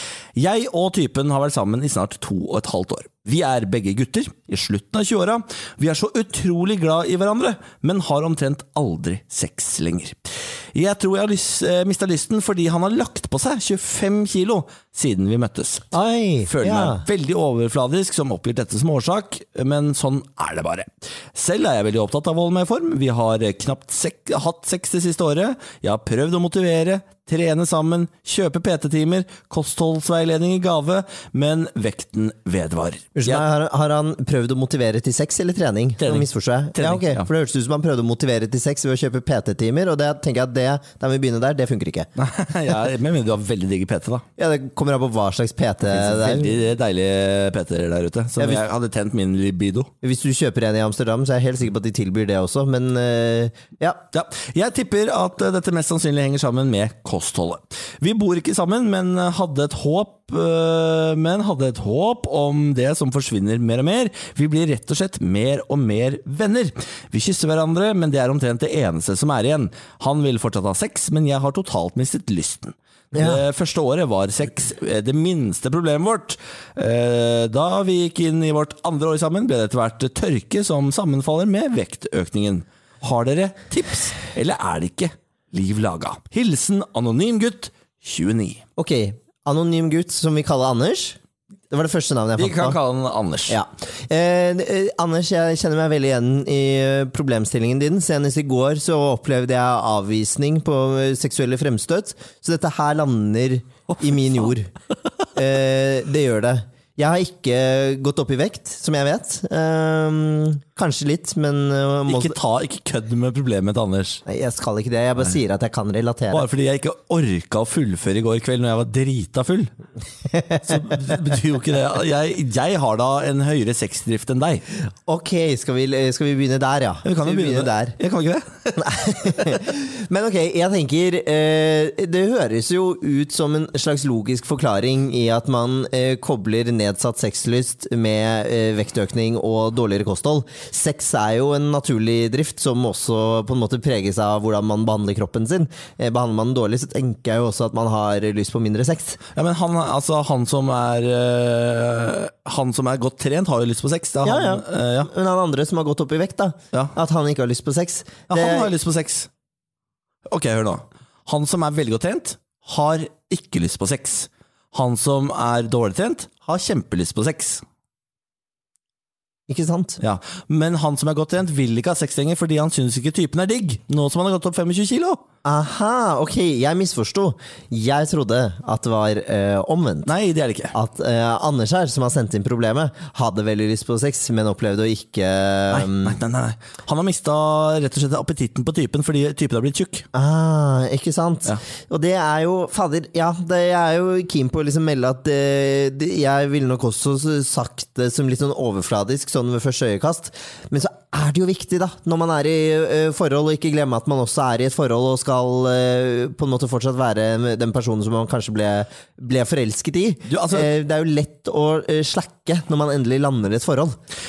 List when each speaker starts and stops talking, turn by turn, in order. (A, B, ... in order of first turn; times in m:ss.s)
0:00.4-0:15.8 A
0:15.9-0:17.0 B
0:16.5-0:33.4 A
0:33.1-0:42.1 B
0:36.0-0:37.3 A
0:42.2-0:44.2 A
0:44.4-0:46.5 B
0:45.9-0:49.9 A
0:50.0-0:54.0 B
0:54.1-1:28.6 A
1:13.1-1:13.4 B
1:28.8-1:31.2 B
1:31.7-1:32.8 B
1:32.4-1:33.6 A
1:33.5-1:44.7 B
1:43.9-1:44.5 A
1:45.4-1:52.3 B
1:52.1-1:54.2 A
1:54.2-1:56.5 B
1:56.3-1:59.7 A
2:00.3-2:01.0 B
2:00.6-2:04.6 A
2:05.0-2:08.0 B
2:07.0-2:08.8 A
2:08.8-2:29.2 B
2:29.3-2:35.1 A
2:34.2-2:38.7 B
2:38.3-2:39.3 A
2:40.3-2:47.6 A
2:49.5-2:50.0 B
2:50.0-2:55.2 A
2:55.4-3:00.1 B
3:00.0-3:00.7 A
3:00.7-3:06.2 B
3:05.7-3:10.1 A
3:10.1-3:34.0 B
3:30.3-3:30.7 A